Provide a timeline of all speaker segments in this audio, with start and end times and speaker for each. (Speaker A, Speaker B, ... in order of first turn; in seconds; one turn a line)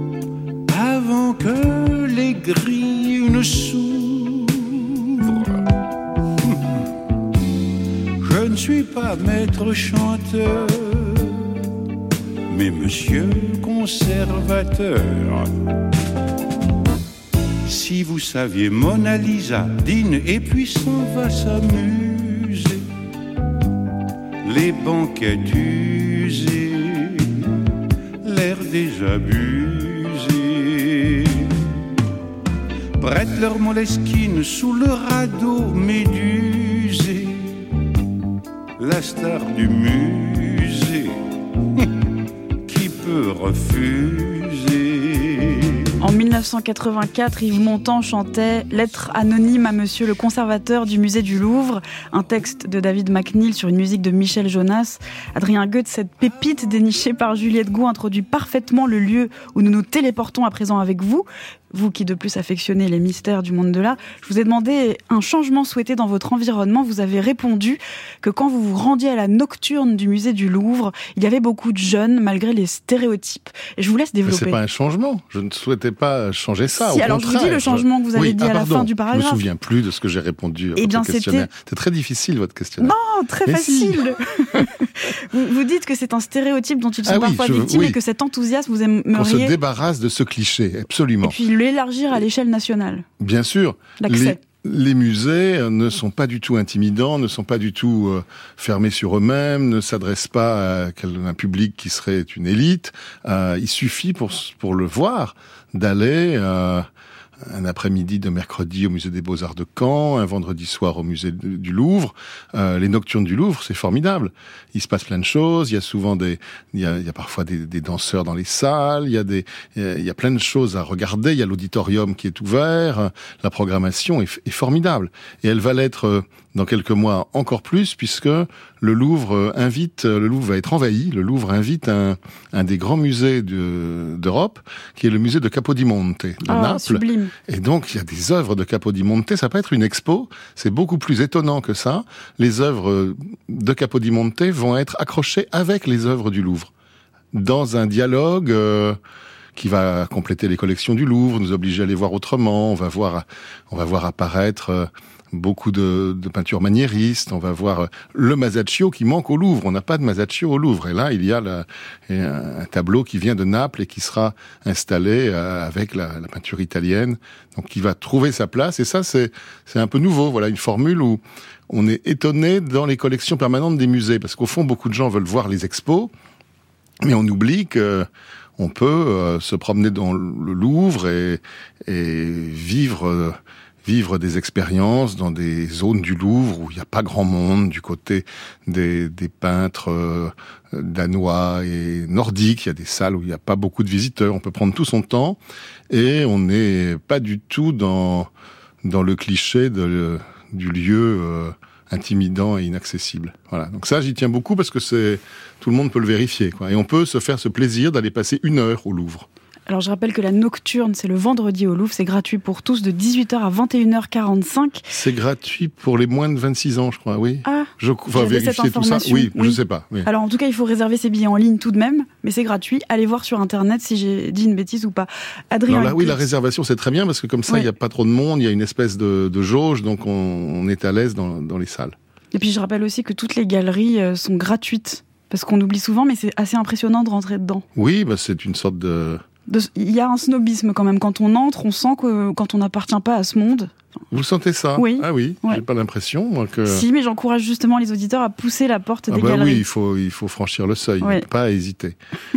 Speaker A: 0.7-5.7
Speaker A: 6.4-6.9
Speaker A: 8.2-11.5
Speaker A: 12.5-15.5
Speaker A: 17.6-22.9
Speaker A: 24.4-27.5
Speaker A: 28.2-31.8
Speaker A: 33.0-37.6
Speaker A: 38.8-41.2
Speaker A: 42.6-45.7
Speaker B: 46.0-74.6
Speaker C: 74.2-82.9
Speaker B: 76.8-79.4
Speaker B: 80.8-81.5
Speaker B: 82.8-89.5
Speaker C: 83.5-84.7
Speaker C: 87.0-88.0
Speaker C: 89.1-91.4
Speaker B: 91.2-93.0
Speaker C: 93.2-106.8
Speaker B: 94.0-94.4
Speaker C: 107.4-146.7
Speaker B: 136.4-137.3
Speaker C: 147.3-149.0
Speaker C: 149.6-176.1
Speaker C: 177.0-198.3
Speaker C: 198.8-209.3
Speaker B: 209.7-214.8
Speaker C: 214.9-220.1
Speaker B: 217.4-226.3
Speaker C: 225.7-231.9
Speaker B: 232.3-237.6
Speaker C: 237.7-239.2
Speaker B: 239.5-243.7
Speaker C: 244.1-246.8
Speaker B: 244.8-245.6
Speaker B: 246.7-249.6
Speaker C: 249.1-252.0